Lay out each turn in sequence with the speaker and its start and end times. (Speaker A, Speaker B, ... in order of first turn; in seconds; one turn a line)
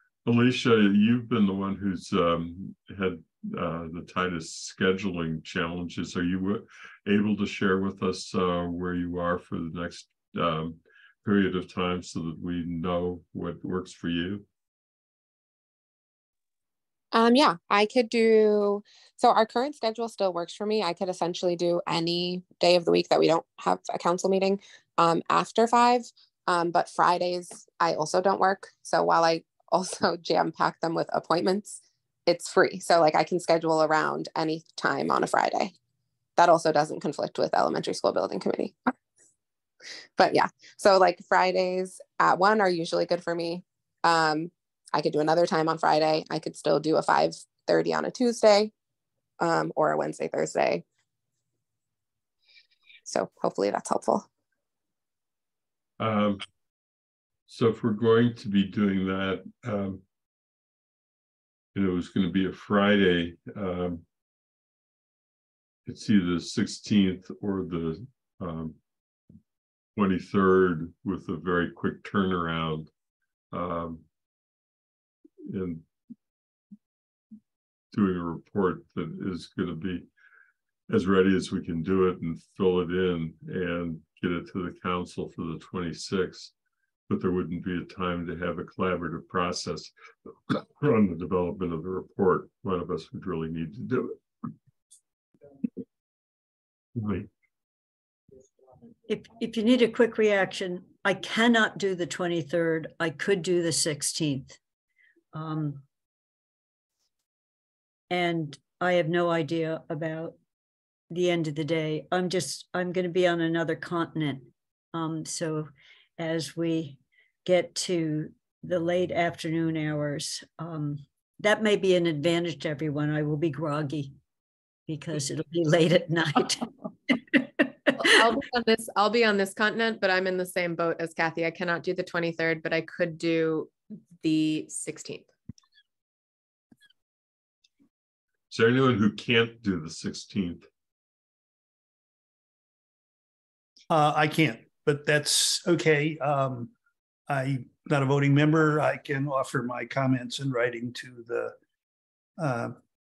Speaker A: 0.2-14.4
Speaker B: 17.1-35.7
Speaker B: 36.4-38.9
Speaker B: 40.2-48.7
Speaker B: 49.4-50.8
Speaker B: 53.0-54.3
Speaker A: 56.0-56.4
Speaker A: 57.5-60.0
Speaker A: 61.7-64.0
Speaker A: 65.8-68.7
Speaker A: 69.9-72.9
Speaker A: 73.5-74.0
Speaker A: 75.4-75.8
Speaker A: 77.9-80.0
Speaker A: 80.9-86.5
Speaker A: 87.1-89.9
Speaker A: 90.5-94.2
Speaker A: 97.0-97.3
Speaker C: 99.1-104.6
Speaker C: 105.3-105.8
Speaker C: 108.1-110.3
Speaker C: 111.1-124.1
Speaker C: 124.9-128.0
Speaker D: 128.0-135.3
Speaker A: 138.5-140.7
Speaker E: 143.9-146.7
Speaker E: 147.3-151.5
Speaker E: 152.4-152.8